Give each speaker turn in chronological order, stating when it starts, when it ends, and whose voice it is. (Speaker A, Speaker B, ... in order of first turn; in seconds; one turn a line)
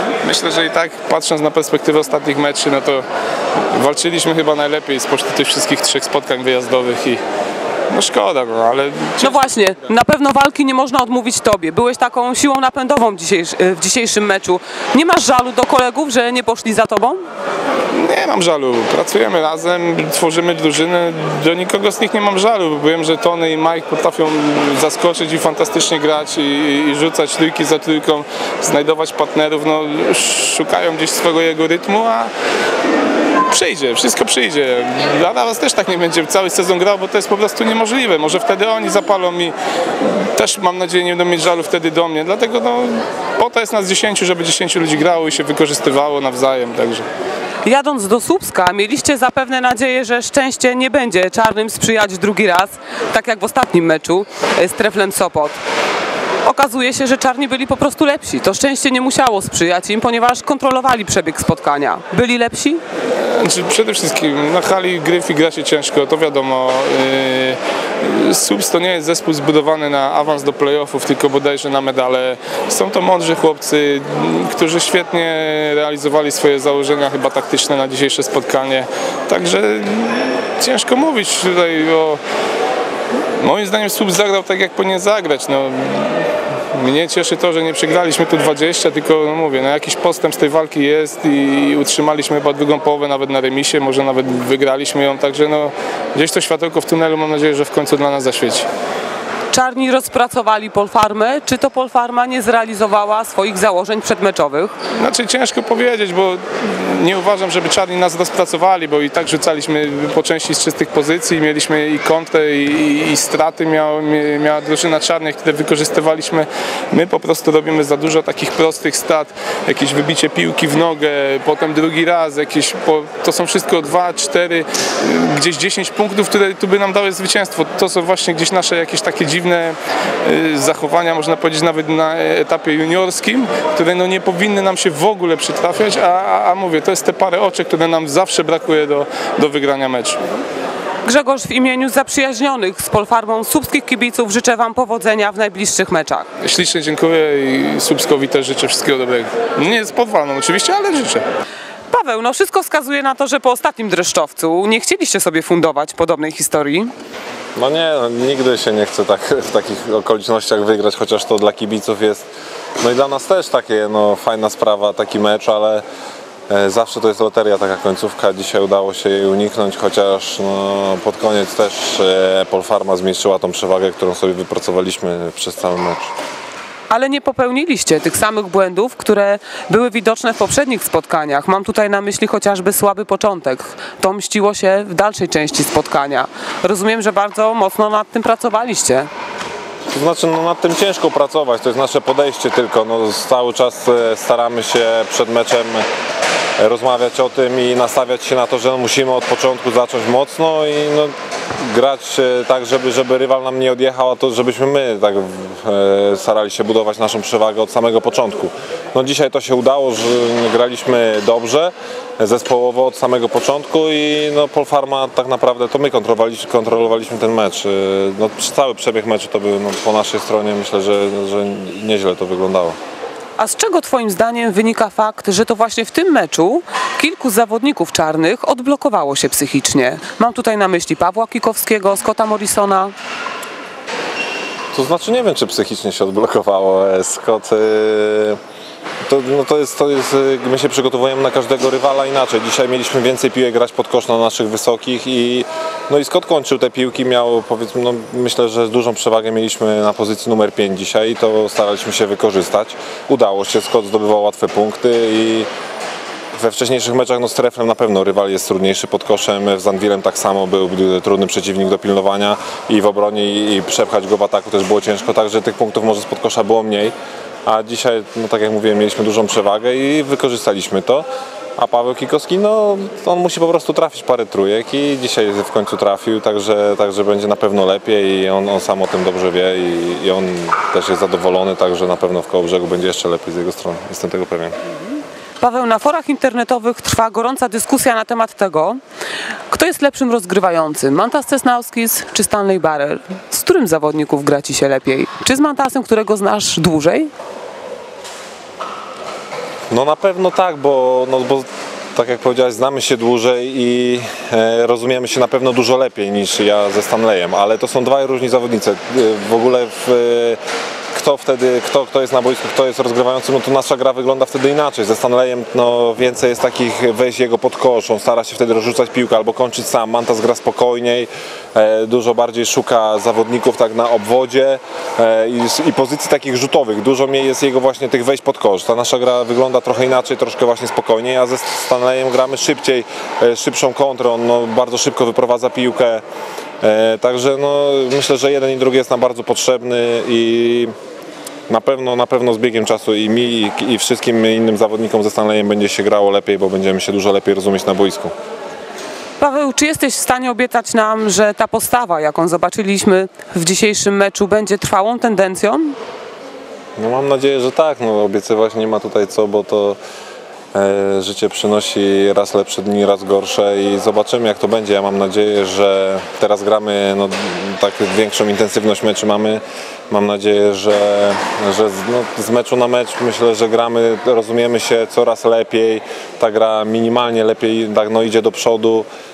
Speaker A: 0.2-3.0
Speaker A: 3.7-7.2
Speaker A: 7.9-9.4
Speaker B: 9.2-17.2
Speaker A: 17.9-32.3
Speaker A: 33.5-47.1
Speaker B: 47.6-55.6
Speaker B: 56.5-62.8
Speaker A: 63.1-82.2
Speaker A: 83.4-98.7
Speaker B: 99.5-104.7
Speaker A: 105.0-140.2
Speaker B: 141.1-146.3
Speaker A: 146.4-151.2
Speaker B: 151.9-156.9
Speaker C: 157.6-162.3
Speaker C: 162.8-165.8
Speaker C: 166.5-176.1
Speaker B: 176.9-189.1
Speaker C: 189.9-195.9
Speaker C: 196.6-222.8
Speaker B: 223.4-232.9
Speaker C: 234.7-238.4
Speaker C: 239.1-255.5
Speaker C: 256.4-271.1
Speaker C: 271.6-284.6
Speaker B: 285.4-288.8
Speaker B: 289.5-297.1
Speaker C: 299.7-310.4
Speaker C: 310.9-336.0
Speaker C: 336.6-340.7
Speaker C: 341.5-348.1
Speaker B: 349.2-355.8
Speaker C: 356.8-359.8
Speaker C: 360.5-378.9